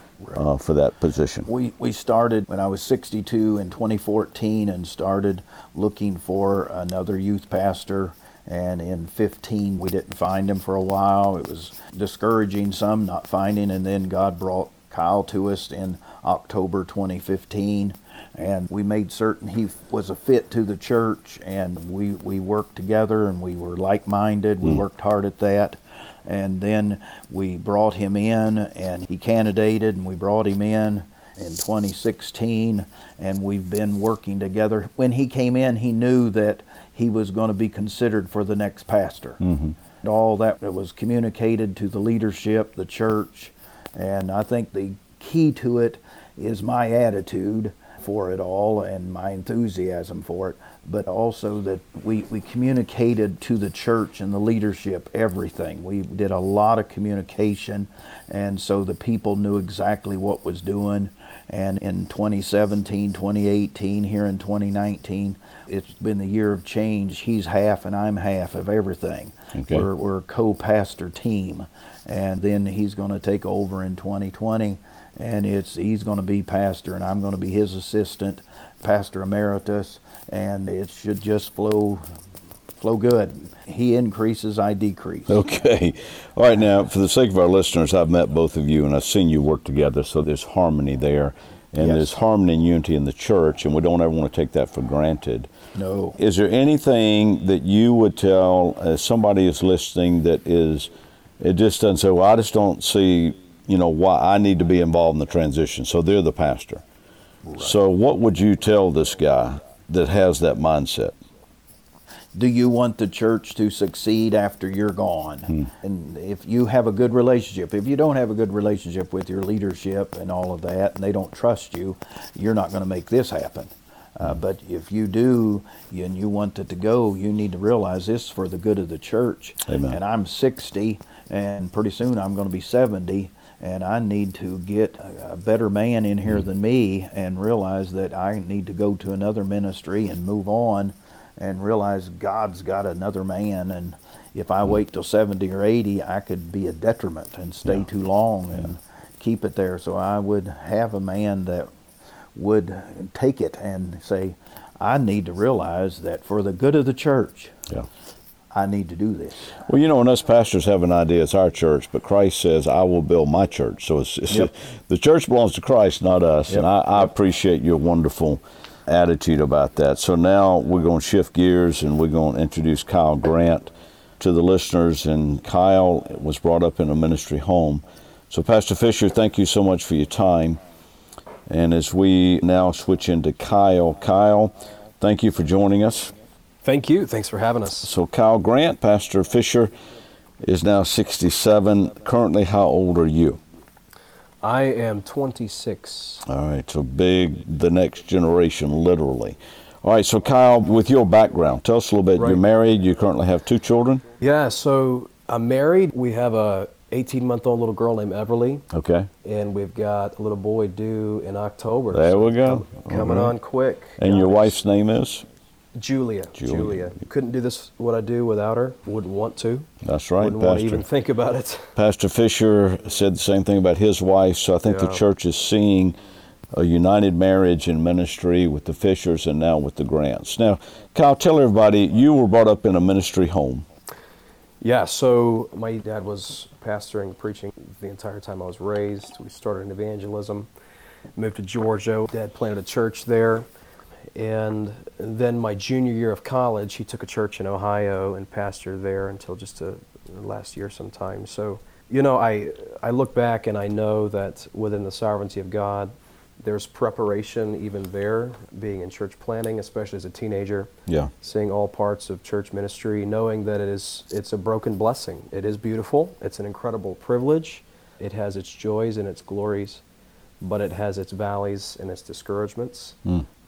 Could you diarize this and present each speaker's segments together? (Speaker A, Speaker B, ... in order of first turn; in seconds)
Speaker A: 0.3-1.5, 39.4-39.7, 69.5-69.8, 85.3-95.5, 96.2-106.8, 107.6-111.1, 129.7-130.0, 159.7-180.6, 181.5-186.1, 187.8-189.7, 190.4-193.4, 196.2-204.0, 208.7-209.1, 211.9-213.3, 214.0-215.2, 216.4-216.9, 219.8-220.8, 221.8-225.9, 226.5-233.7, 260.9-261.1
Speaker B: 1.4-39.4, 40.0-82.0, 82.8-85.4, 91.8-92.2, 95.7-96.2, 107.4-107.7, 112.3-151.7, 152.3-157.6, 158.5-159.6
Speaker C: 186.6-187.9, 194.4-196.2, 204.2-208.6, 209.2-214.5, 215.7-221.7, 224.6-225.0, 234.6-240.5, 241.2-243.4, 244.1-260.7, 261.2-269.8, 270.4-273.0